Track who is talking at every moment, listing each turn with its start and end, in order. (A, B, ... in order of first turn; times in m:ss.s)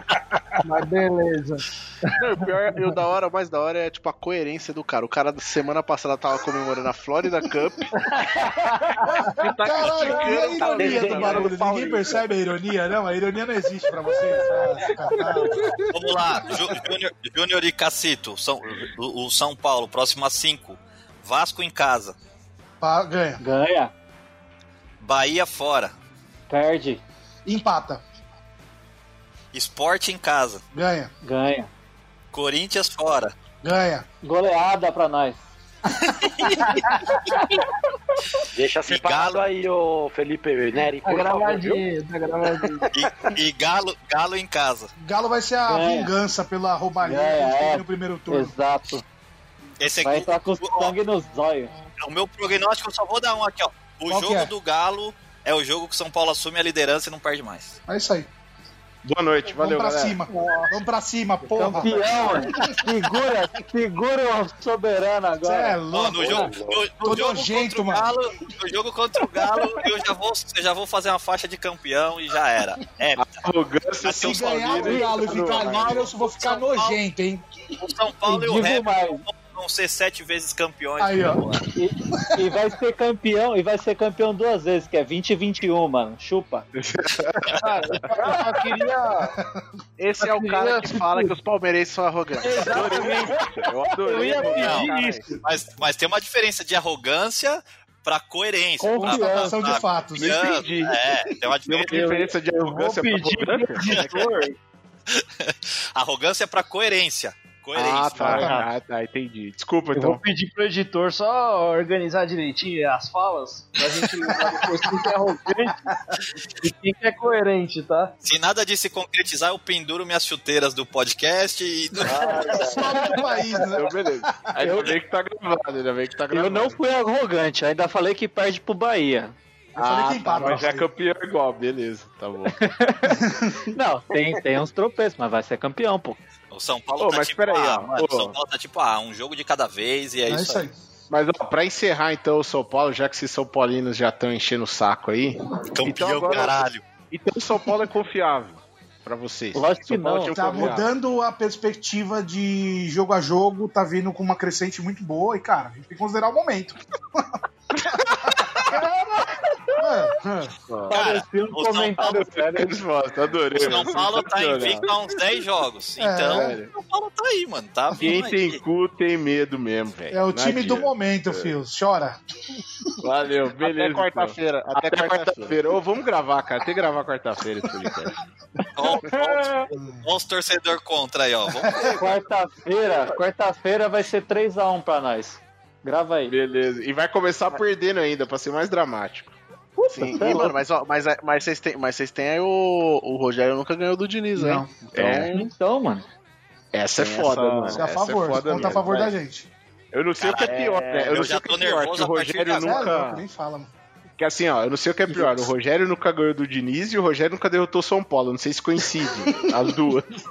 0:00.6-0:02.1 A
0:02.2-0:07.9 B
0:09.3-0:15.7 C
0:09.4-0:12.2 B
0:10.8-0:11.9 D
0:15.9-0:22.2 E
0:22.8-0:23.4 C
0:23.4-0:23.9 F
0:25.0-0:25.9 E
0:26.5-0:27.0 F
0:27.4-0:28.0 C
0:29.5-0:30.6 E
0:30.7-0:31.1 C
0:31.2-0:31.7 F
0:32.3-0:33.3 E
0:33.6-0:34.0 C
0:34.2-0:35.4 F
0:36.2-0:36.8 E
0:38.5-0:41.7 D
0:38.8-0:39.4 E
0:41.0-0:42.9 A
0:42.9-0:44.9 E
0:45.0-0:48.5 C
0:45.7-0:46.1 F
0:47.0-0:49.0 F
0:49.8-0:50.9 E
0:50.0-0:51.7 F
0:52.0-0:57.8 E
0:54.1-0:54.5 C
0:57.9-0:58.3 C
0:59.0-1:00.2 G
0:59.5-1:02.3 C
1:00.3-1:00.7 A
1:01.5-1:05.8 F
1:05.4-1:06.5 C
1:05.9-1:13.4 E
1:06.3-1:06.9 D
1:07.0-1:08.1 C
1:13.2-1:16.1 G
1:14.0-1:17.0 E
1:14.1-1:17.5 C
1:17.8-1:21.6 E
1:18.2-1:19.2 F
1:21.0-1:21.6 C
1:21.8-1:26.7 F
1:22.2-1:22.4 C
1:26.7-1:28.0 G
1:27.6-1:29.3 A
1:30.0-1:33.0 B
1:30.2-1:31.3 A
1:32.4-1:33.4 A
1:32.7-1:35.2 G
1:34.0-1:35.3 A
1:34.1-1:35.2 B
1:34.6-1:34.9 E
1:35.4-1:42.1 E
1:38.8-1:39.6 F
1:39.0-1:40.5 C
1:40.2-1:40.9 G
1:41.6-1:44.3 G
1:41.9-1:44.6 A
1:45.1-1:48.6 E
1:47.7-1:50.2 G
1:48.2-1:48.5 B
1:49.9-1:55.8 A
1:56.6-1:58.1 A
1:58.2-2:02.2 E
2:02.1-2:02.8 A
2:02.1-2:02.9 D
2:02.6-2:04.5 C
2:03.7-2:06.8 G
2:06.3-2:09.3 F
2:09.8-2:10.9 C
2:09.8-2:12.6 G
2:12.5-2:13.2 F
2:13.2-2:13.7 C
2:13.7-2:16.2 F
2:16.5-2:20.6 E
2:17.0-2:18.4 G
2:20.3-2:20.7 C
2:21.1-2:30.9 G
2:25.7-2:26.8 E
2:29.5-2:30.7 F
2:30.3-2:37.2 C
2:37.9-2:38.8 C
2:38.8-2:39.1 F
2:39.8-2:40.5 C
2:40.9-2:42.8 F
2:40.9-2:42.2 E
2:42.0-2:44.9 G
2:43.5-2:48.6 E
2:46.0-2:46.6 C
2:46.3-2:46.7 G
2:48.0-2:51.5 G
2:50.1-2:52.2 C
2:53.0-2:58.1 G
2:53.6-2:55.7 B
2:58.8-3:01.8 E
2:59.7-3:00.0 C
3:01.7-3:02.0 C
3:01.9-3:06.3 F
3:06.3-3:09.3 G
3:09.8-3:10.5 F
3:09.9-3:15.5 B
3:14.3-3:14.7 C
3:14.9-3:15.3 G
3:15.3-3:16.0 F
3:16.7-3:19.1 G
3:16.9-3:17.9 B
3:17.7-3:19.5 C
3:18.4-3:19.1 B
3:19.9-3:23.2 G
3:20.2-3:22.9 E
3:20.5-3:21.1 B
3:22.6-3:23.7 C
3:24.2-3:30.1 G